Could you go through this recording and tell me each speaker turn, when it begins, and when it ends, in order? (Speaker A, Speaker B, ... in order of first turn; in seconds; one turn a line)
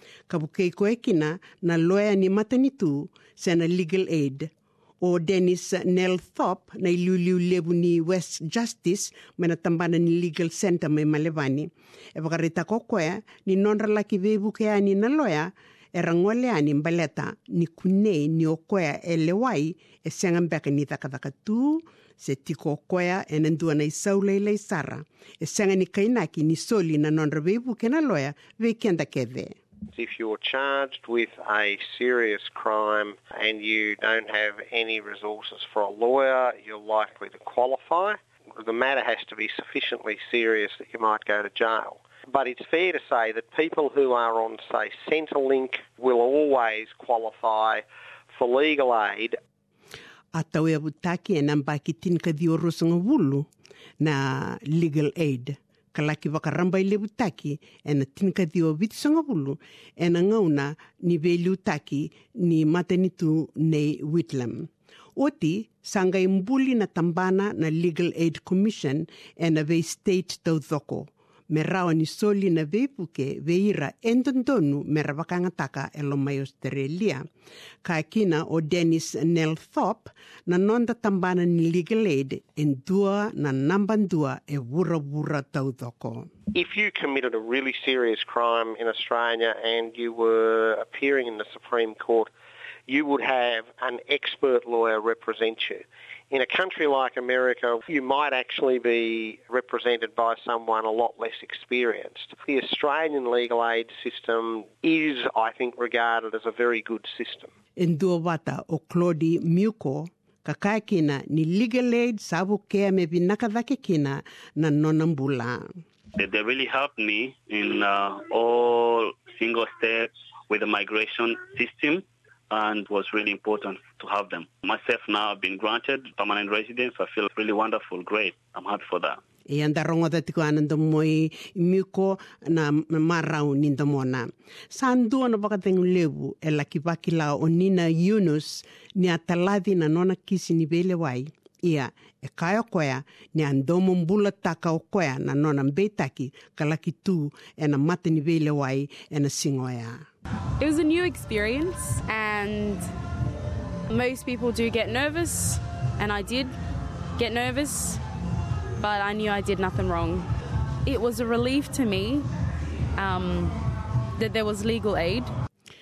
Speaker A: 0.3-4.5
Speaker A: 5.0-29.6
Speaker B: 29.9-49.4
Speaker A: 50.3-53.5
Speaker A: 54.0-77.2
Speaker A: 77.8-86.3
Speaker B: 86.5-92.3
Speaker B: 92.9-107.5
Speaker A: 107.8-115.7
Speaker C: 116.2-129.2
Speaker A: 129.5-150.1
Speaker D: 150.6-152.8
Speaker D: 153.9-156.5
Speaker D: 157.2-158.0
Speaker D: 158.8-160.2
Speaker D: 160.8-162.2
Speaker D: 162.9-165.3